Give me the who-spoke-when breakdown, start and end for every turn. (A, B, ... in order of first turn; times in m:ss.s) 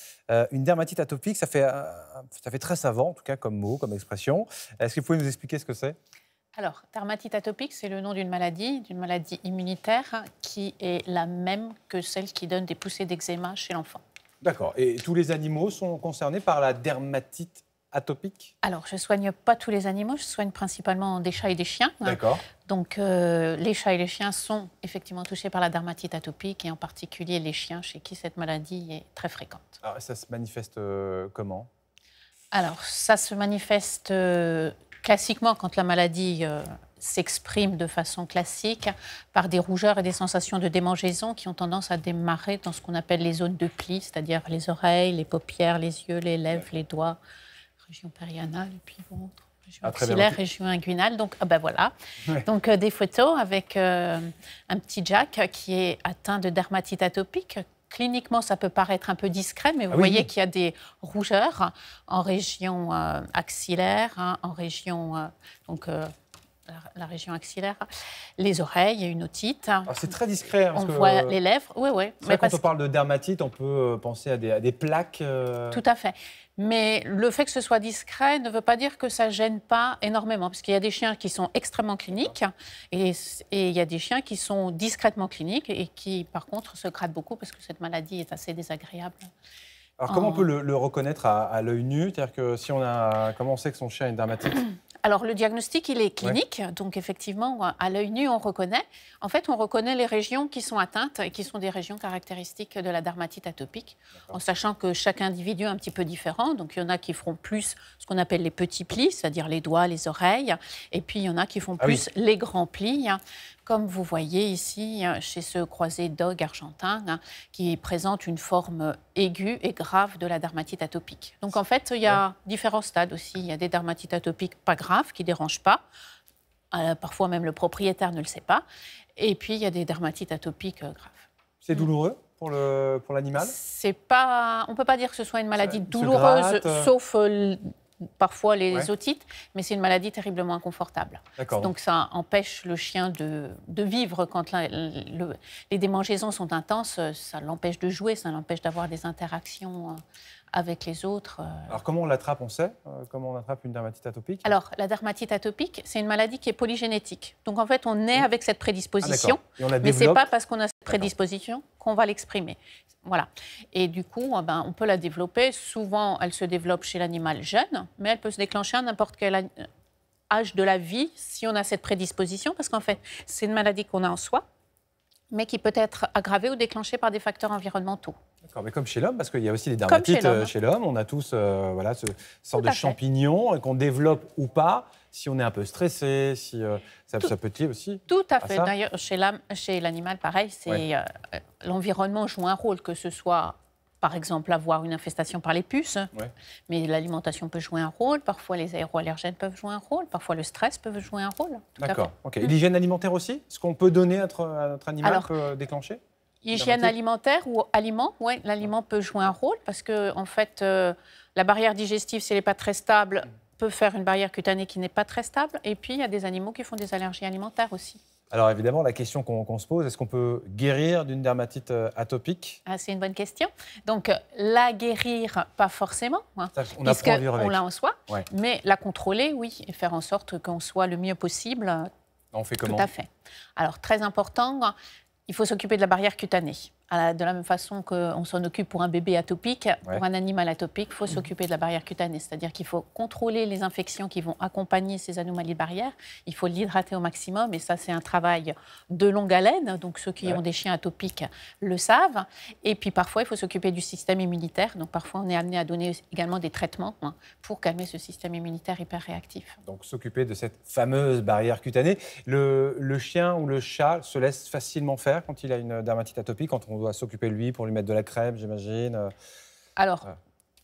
0:00.3-0:06.0 A
0:06.6-0:14.0 B
0:14.4-0:18.5 A
0:18.6-0:29.8 B
0:22.0-0:22.4 A
0:29.8-0:31.7 A
0:32.5-0:47.2 B
0:47.9-1:06.1 B
0:49.8-0:50.4 A
0:59.9-1:00.3 A
1:06.7-1:09.9 B
1:09.9-1:11.4 A
1:10.7-1:12.6 B
1:12.2-1:15.8 A
1:15.7-1:29.3 B
1:30.0-1:34.7 A
1:30.1-1:30.5 B
1:35.0-2:05.8 B
2:06.7-2:08.6 B
2:09.2-2:11.3 B
2:11.6-2:13.6 A
2:13.4-2:30.0 B
2:15.6-2:16.9 A
2:21.4-2:21.7 A
2:30.5-2:31.8 B
2:31.7-2:34.5 A
2:34.4-2:49.7 B
2:39.0-2:40.3 A
2:50.3-2:54.4 B
2:55.3-2:58.2 B
2:58.4-3:08.7 A
2:59.9-3:00.5 B
3:02.6-3:03.0 B
3:08.1-3:16.1 B
3:16.7-3:22.0 B
3:21.8-3:26.0 A
3:25.0-3:25.3 B
3:26.4-3:38.0 B
3:26.5-3:26.9 A
3:38.3-3:42.6 A
3:42.7-3:51.9 B
3:46.5-3:48.2 A
3:52.3-3:52.9 A
3:52.6-3:54.7 B
3:55.3-4:19.6 B
4:19.6-4:29.1 A
4:29.8-4:30.1 B